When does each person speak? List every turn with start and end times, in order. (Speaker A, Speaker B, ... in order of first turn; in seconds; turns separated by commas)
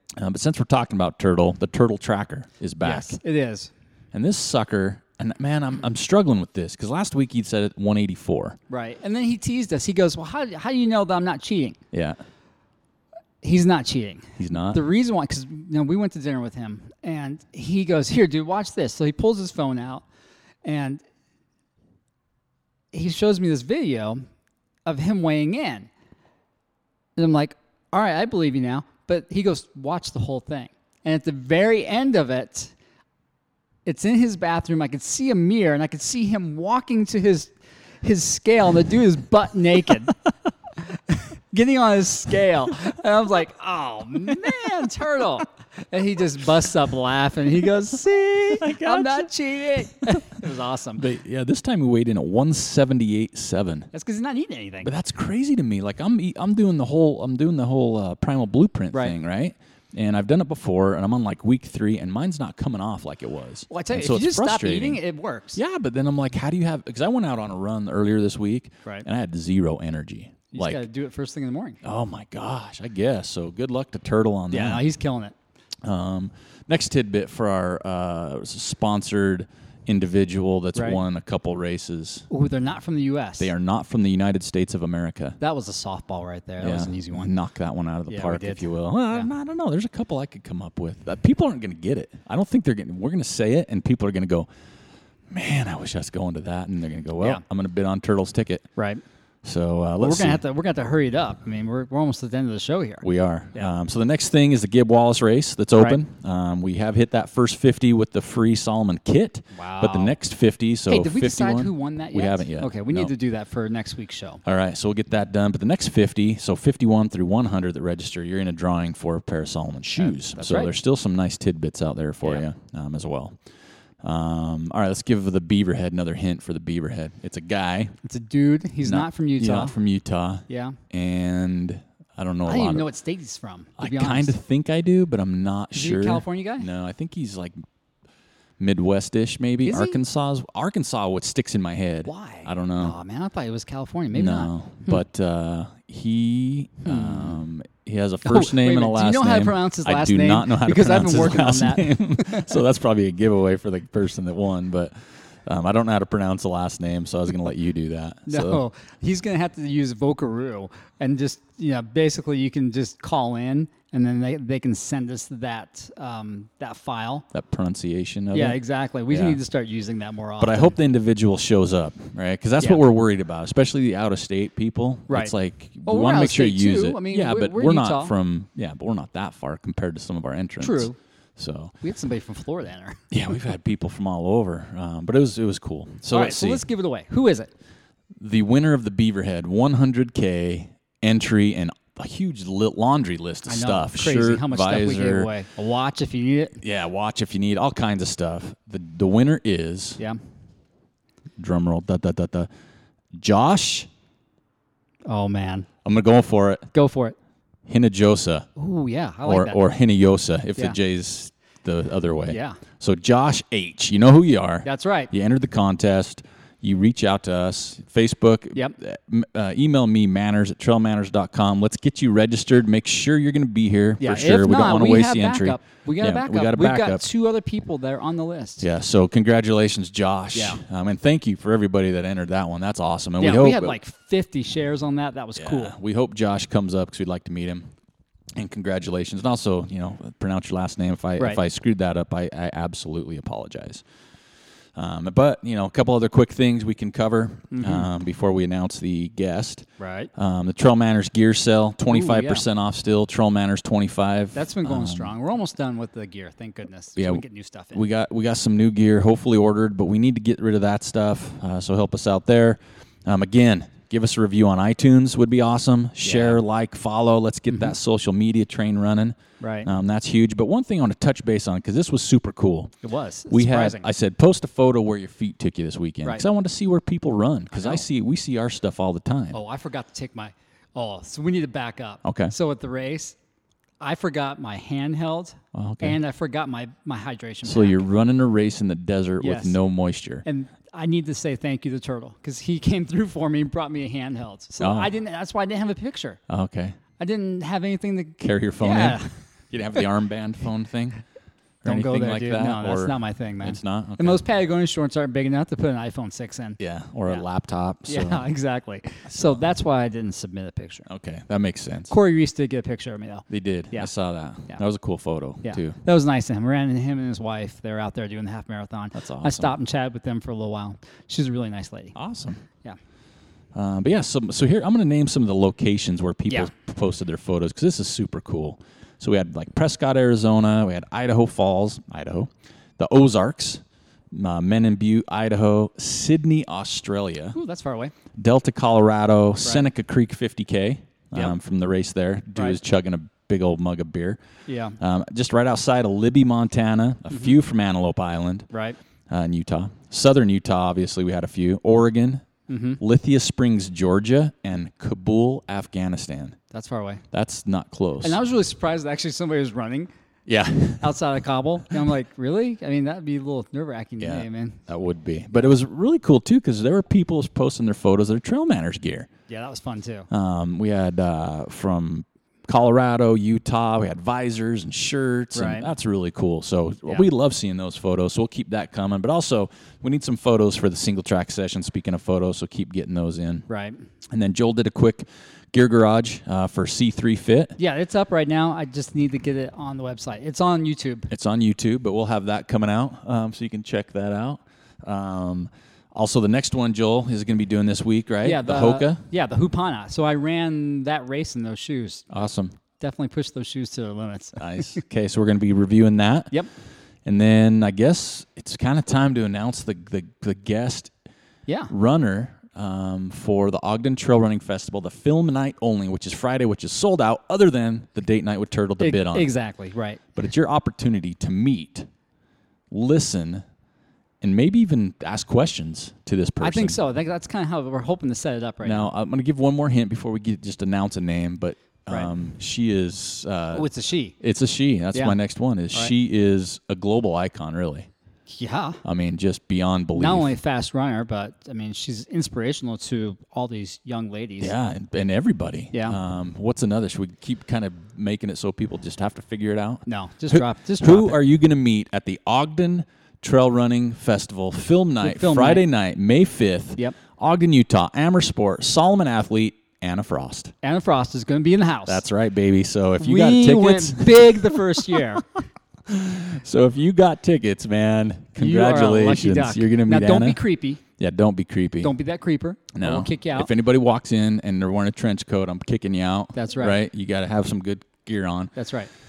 Speaker A: 0.2-3.2, Speaker B: 2.8-3.7, Speaker A: 4.1-8.6, Speaker B: 8.7-11.8, Speaker A: 11.9-12.2, Speaker B: 13.4-20.1, Speaker A: 14.4-14.8, Speaker B: 20.6-21.0, Speaker B: 22.9-24.2, Speaker B: 24.9-25.9, Speaker B: 27.2-32.7, Speaker B: 33.9-40.1, Speaker B: 40.9-51.1, Speaker A: 48.5-49.3, Speaker A: 51.0-53.9, Speaker B: 53.9-54.9, Speaker A: 54.9-65.0, Speaker B: 63.7-65.6, Speaker A: 65.5-70.8, Speaker B: 70.5-71.8, Speaker A: 71.8-74.8, Speaker B: 74.5-75.3, Speaker A: 75.8-82.3, Speaker B: 80.8-81.0, Speaker B: 82.3-83.5, Speaker A: 83.4-85.4, Speaker B: 85.4-87.3, Speaker A: 86.6-94.5, Speaker B: 88.1-89.3, Speaker A: 95.3-98.7, Speaker B: 98.8-99.0, Speaker A: 99.4-100.4, Speaker B: 100.0-103.7, Speaker A: 103.0-113.1, Speaker B: 105.8-106.0, Speaker B: 109.5-110.2, Speaker B: 110.9-114.4, Speaker A: 114.4-123.4, Speaker B: 120.0-120.7, Speaker A: 124.0-128.0, Speaker B: 128.0-129.8, Speaker A: 128.8-132.9, Speaker B: 130.5-130.8, Speaker B: 132.4-134.3, Speaker A: 133.8-137.6, Speaker B: 135.7-136.7, Speaker A: 138.6-143.0, Speaker B: 139.7-140.0, Speaker B: 142.1-145.0, Speaker A: 144.1-158.6, Speaker B: 146.8-147.4, Speaker B: 148.2-152.6, Speaker B: 158.3-167.3, Speaker A: 167.3-169.4, Speaker B: 168.3-170.7, Speaker A: 170.4-181.8, Speaker B: 175.1-175.3, Speaker B: 175.9-178.2, Speaker B: 180.6-181.0, Speaker B: 181.8-183.0, Speaker A: 183.1-186.7, Speaker B: 186.1-187.5, Speaker A: 188.2-195.3, Speaker B: 193.5-196.6, Speaker A: 196.6-200.0, Speaker A: 201.4-202.5, Speaker A: 203.1-203.9, Speaker B: 205.1-205.7, Speaker A: 205.8-206.7, Speaker B: 206.7-207.2, Speaker A: 207.7-208.5, Speaker B: 208.6-209.6, Speaker A: 209.2-227.1, Speaker B: 212.3-212.6, Speaker B: 214.7-215.1, Speaker B: 224.0-228.7, Speaker A: 228.6-233.8, Speaker B: 230.3-230.6, Speaker B: 233.2-235.8, Speaker A: 235.4-237.7, Speaker A: 238.4-243.8, Speaker A: 244.8-255.1, Speaker B: 247.5-247.9, Speaker B: 249.8-250.1, Speaker B: 251.9-252.4, Speaker B: 254.3-257.9, Speaker A: 257.0-257.2, Speaker A: 257.7-272.8, Speaker B: 266.0-266.4, Speaker B: 269.4-269.7, Speaker B: 272.8-273.9, Speaker A: 273.3-279.4, Speaker B: 277.5-277.8, Speaker B: 279.3-283.2, Speaker A: 282.0-282.3, Speaker B: 283.8-287.8, Speaker A: 285.5-286.0, Speaker A: 287.4-290.2, Speaker B: 289.2-289.6, Speaker B: 290.2-296.2, Speaker A: 294.6-294.9, Speaker A: 296.3-296.8, Speaker B: 297.0-299.2, Speaker A: 298.2-301.0, Speaker A: 301.6-304.2, Speaker B: 301.6-307.2, Speaker A: 306.6-308.3, Speaker B: 307.9-310.9, Speaker A: 309.1-309.4, Speaker A: 310.9-311.9, Speaker B: 311.9-313.9, Speaker A: 313.3-315.8, Speaker B: 315.4-322.0, Speaker A: 318.9-319.6, Speaker A: 322.0-322.4, Speaker A: 323.5-337.4, Speaker B: 337.3-337.9, Speaker A: 338.1-344.2, Speaker B: 344.5-344.8, Speaker A: 344.8-348.5, Speaker B: 348.5-348.8, Speaker A: 349.1-352.3, Speaker B: 352.5-352.8, Speaker A: 352.8-356.4, Speaker B: 356.5-357.0, Speaker A: 357.1-358.2, Speaker B: 358.0-359.9, Speaker A: 360.3-361.0, Speaker B: 360.8-364.6, Speaker A: 364.0-369.1, Speaker B: 369.3-370.1, Speaker A: 370.1-383.5, Speaker B: 375.3-375.7, Speaker B: 383.5-383.8, Speaker A: 384.1-387.6, Speaker B: 387.6-391.1, Speaker A: 391.1-399.0, Speaker B: 398.2-402.1, Speaker A: 402.1-402.6, Speaker B: 402.8-404.8, Speaker A: 404.4-406.4, Speaker A: 407.1-410.9, Speaker B: 411.5-411.7, Speaker A: 411.7-419.3, Speaker B: 418.8-420.2, Speaker A: 420.2-421.9, Speaker A: 422.7-423.4, Speaker A: 424.2-426.8, Speaker B: 426.4-428.9, Speaker A: 428.6-433.7, Speaker B: 433.5-434.2, Speaker A: 434.2-437.9, Speaker B: 434.9-435.2, Speaker B: 438.3-438.8, Speaker A: 438.8-440.4, Speaker B: 439.9-444.5, Speaker A: 444.4-460.5, Speaker B: 449.9-451.2, Speaker B: 455.0-455.7, Speaker B: 460.6-462.1, Speaker A: 461.9-471.9, Speaker B: 463.0-465.3, Speaker B: 468.4-470.8, Speaker B: 471.8-473.5, Speaker A: 472.7-478.5, Speaker B: 476.4-476.8, Speaker B: 478.6-478.9